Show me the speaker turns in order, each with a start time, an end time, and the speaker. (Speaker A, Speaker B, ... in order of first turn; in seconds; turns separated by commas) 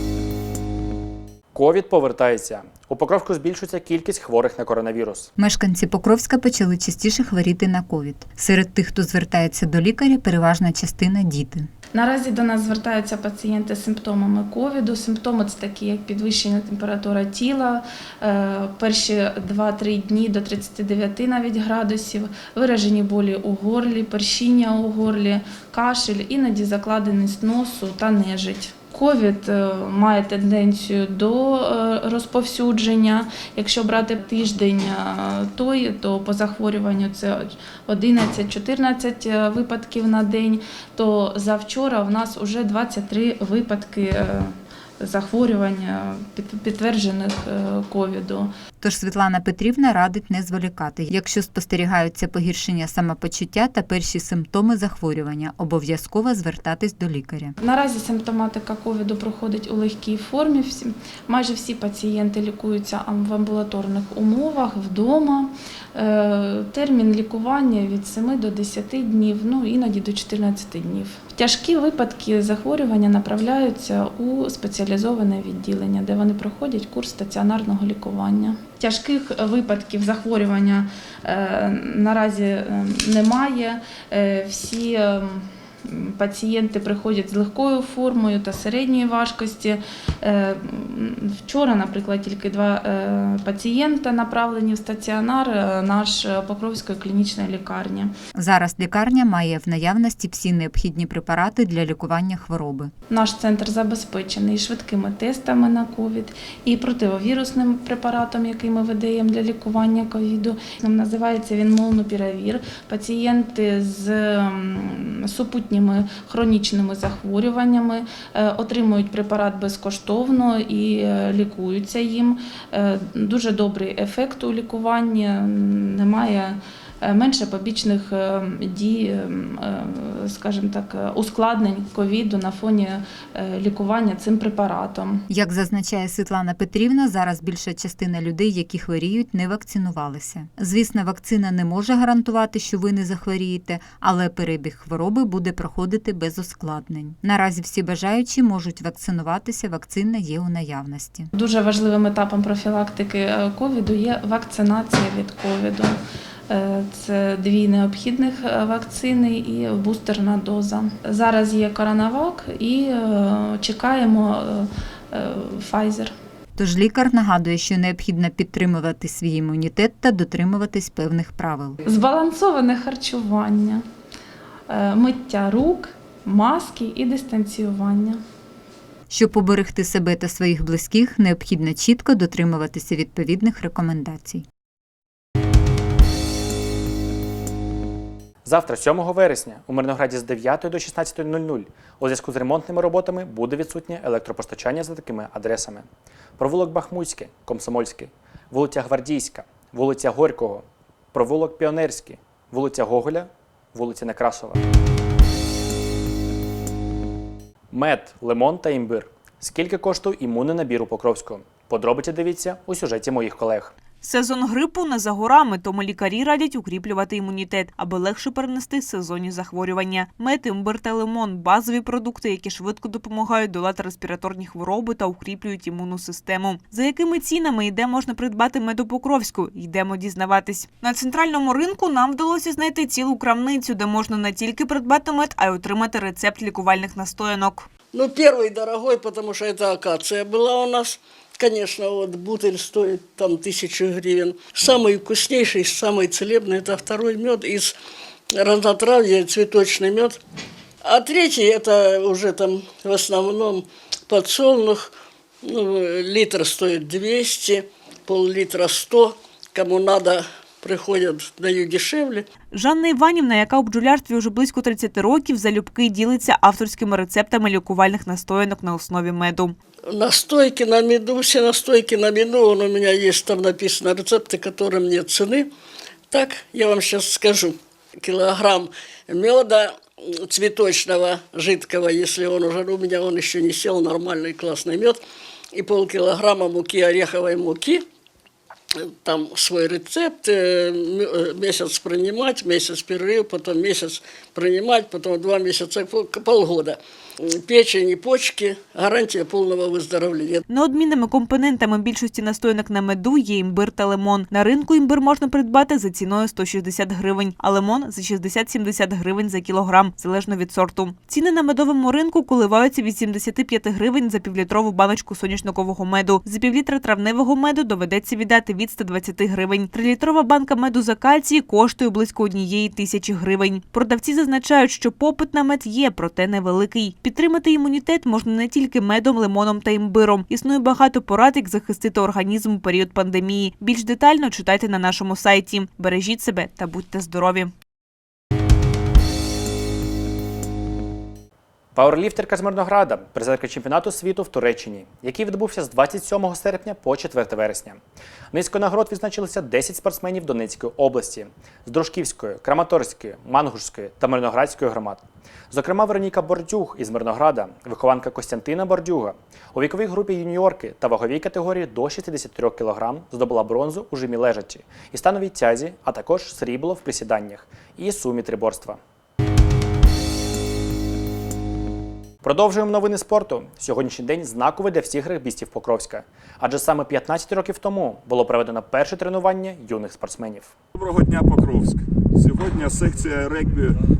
Speaker A: 1.5-5.3, Speaker B: 5.4-11.7, Speaker C: 11.9-48.5, Speaker B: 48.8-57.5, Speaker C: 57.6-98.1, Speaker B: 98.3-102.9, Speaker C: 103.1-135.3, Speaker B: 135.3-151.3, Speaker C: 151.3-156.0, Speaker C: 156.5-166.1, Speaker B: 166.6-171.8, Speaker C: 171.8-173.8, Speaker C: 174.7-178.2, Speaker B: 179.1-184.4, Speaker A: 188.4-195.8, Speaker A: 196.4-204.6, Speaker A: 207.7-213.7, Speaker D: 214.0-237.7, Speaker E: 237.9-247.7, Speaker E: 248.3-250.2, Speaker E: 250.8-262.2, Speaker D: 262.5-269.6, Speaker E: 269.9-275.5, Speaker E: 276.1-285.0, Speaker E: 285.5-287.8, Speaker E: 288.8-300.4, Speaker D: 300.5-337.5, Speaker A: 341.7-347.8, Speaker A: 348.3-368.8, Speaker A: 372.2-380.5, Speaker F: 380.7-383.8